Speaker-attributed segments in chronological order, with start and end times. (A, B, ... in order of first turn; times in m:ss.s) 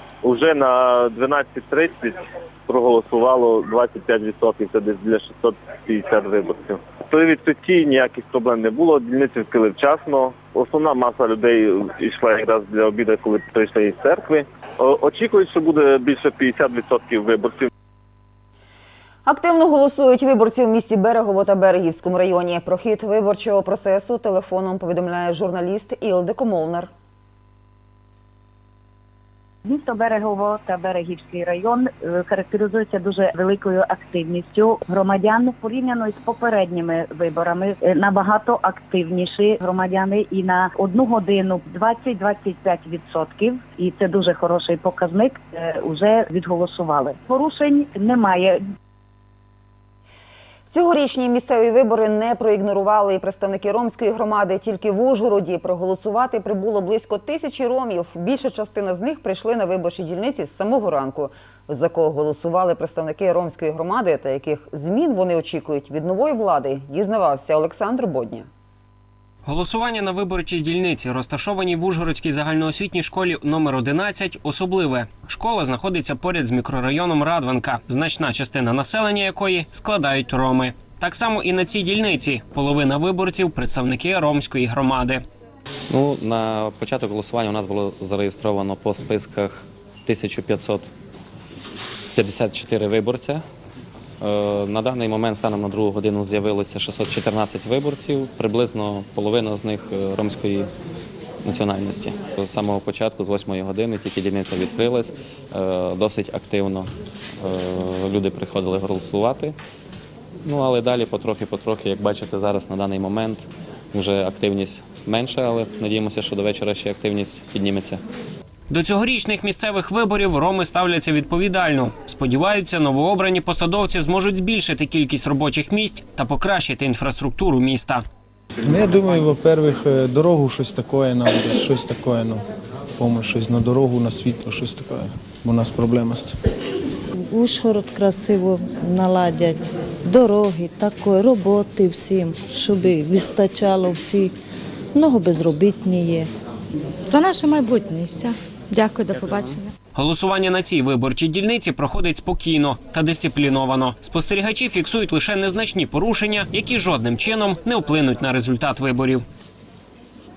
0:00.2-0:17.7 A
0:19.3-0:26.9 B
0:29.6-0:48.6 C
0:50.7-1:08.5 B
1:09.5-1:25.2 D
1:25.9-1:30.9 E
1:32.2-1:33.4 E
1:34.2-1:40.7 E
1:41.4-1:49.6 E
1:50.4-1:58.0 E
1:58.7-2:08.0 D
2:08.7-2:12.4 F
2:13.0-2:16.3 F
2:17.3-2:24.3 G
2:25.0-2:26.3 G
2:27.1-2:29.7 H
2:28.8-2:29.6 F
2:30.0-2:39.2 D